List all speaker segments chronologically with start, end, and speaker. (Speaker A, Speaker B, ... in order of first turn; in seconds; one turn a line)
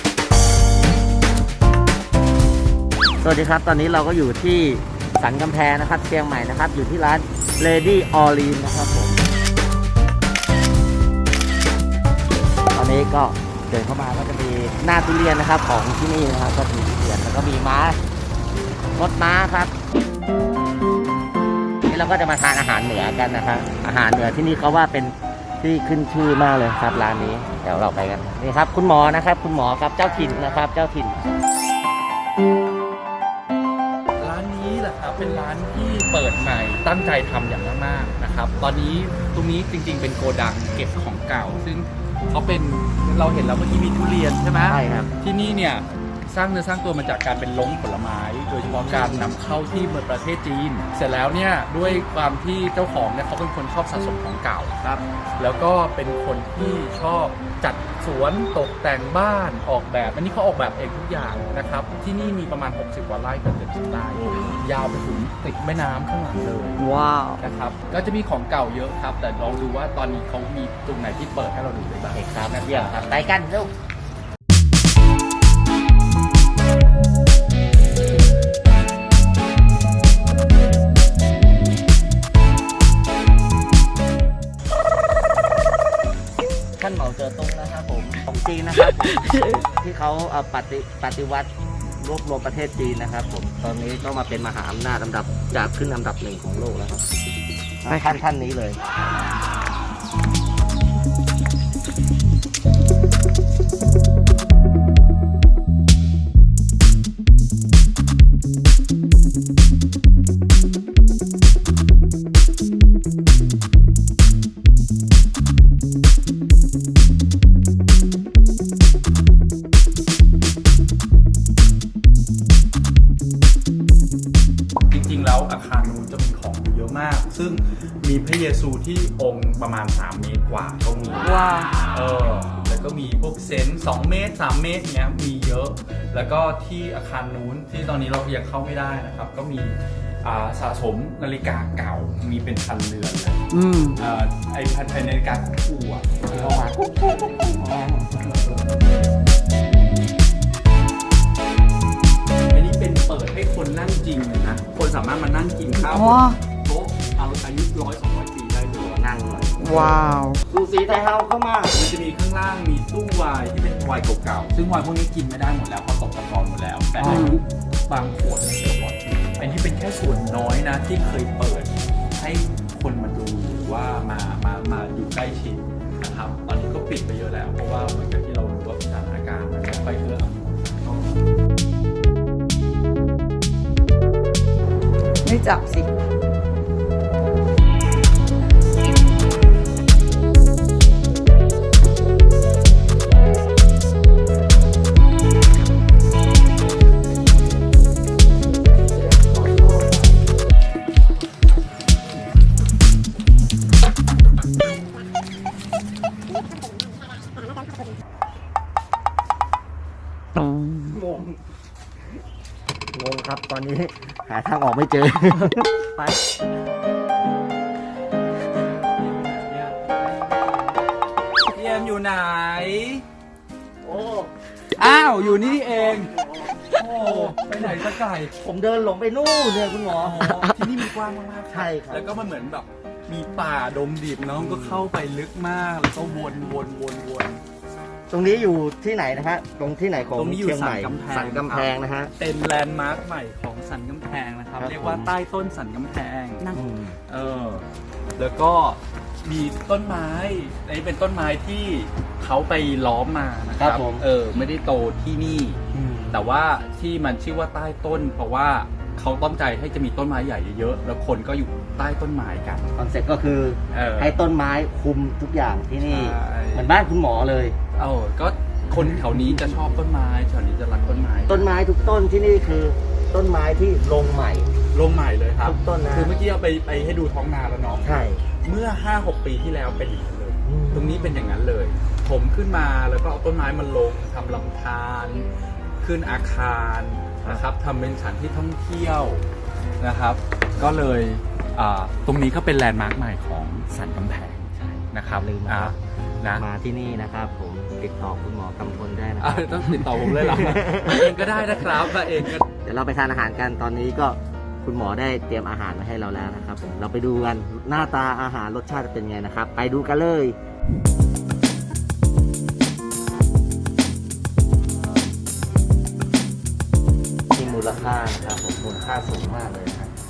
Speaker A: 3.2-9.2
Speaker A: 12.7-18.0
Speaker A: 18.9-19.7
Speaker A: 21.9-31.2
Speaker B: 34.2-66.8
Speaker A: 44.6-45.1
Speaker A: 48.6-49.4
Speaker A: 64.2-64.6
Speaker C: 66.8-67.4
Speaker B: 67.4-73.1
Speaker A: 72.1-73.7
Speaker A: 86.8-97.0
Speaker C: 88.8-89.7
Speaker A: 97.8-98.8
Speaker B: 124.9-131.3
Speaker C: 131.2-131.8
Speaker B: 131.9-143.4
Speaker C: 143.5-144.0
Speaker B: 144.0-146.7
Speaker A: 146.2-148.3
Speaker B: 148.2-148.6
Speaker B: 152.5-159.0
Speaker C: 155.8-156.4
Speaker A: 158.7-161.8
Speaker C: 159.6-160.4
Speaker B: 161.7-181.1
Speaker C: 167.0-167.4
Speaker A: 167.1-167.3
Speaker C: 185.2-185.9
Speaker C: 210.4-210.7
Speaker A: 210.8-211.4
Speaker A: 212.9-216.2
Speaker B: 218.7-220.0
Speaker B: 221.5-223.0
Speaker A: 223.8-224.3
Speaker B: 224.7-226.1
Speaker A: 225.3-227.4
Speaker B: 226.7-228.4
Speaker A: 228.4-230.4
Speaker B: 229.9-237.4
Speaker A: 231.5-232.1
Speaker A: 234.4-234.9
Speaker A: 238.1-242.1
Speaker B: 240.2-246.5
Speaker A: 244.6-245.1
Speaker A: 246.5-247.0
Speaker B: 247.1-247.7
Speaker B: 248.2-262.7
Speaker A: 253.6-254.1
Speaker A: 255.7-256.2
Speaker A: 262.8-267.6
Speaker B: 263.7-264.2
Speaker B: 265.9-266.7
Speaker B: 267.8-271.5
Speaker A: 268.7-269.4
Speaker A: 271.3-274.5
Speaker B: 274.7-285.3
Speaker A: 275.4-276.1
Speaker A: 277.8-278.2
Speaker A: 280.4-281.1
Speaker B: 285.8-289.2
Speaker B: 289.8-296.4
Speaker A: 295.1-295.8
Speaker A: 296.4-301.9
Speaker B: 299.2-302.5
Speaker A: 302.6-310.4
Speaker A: 317.3-319.9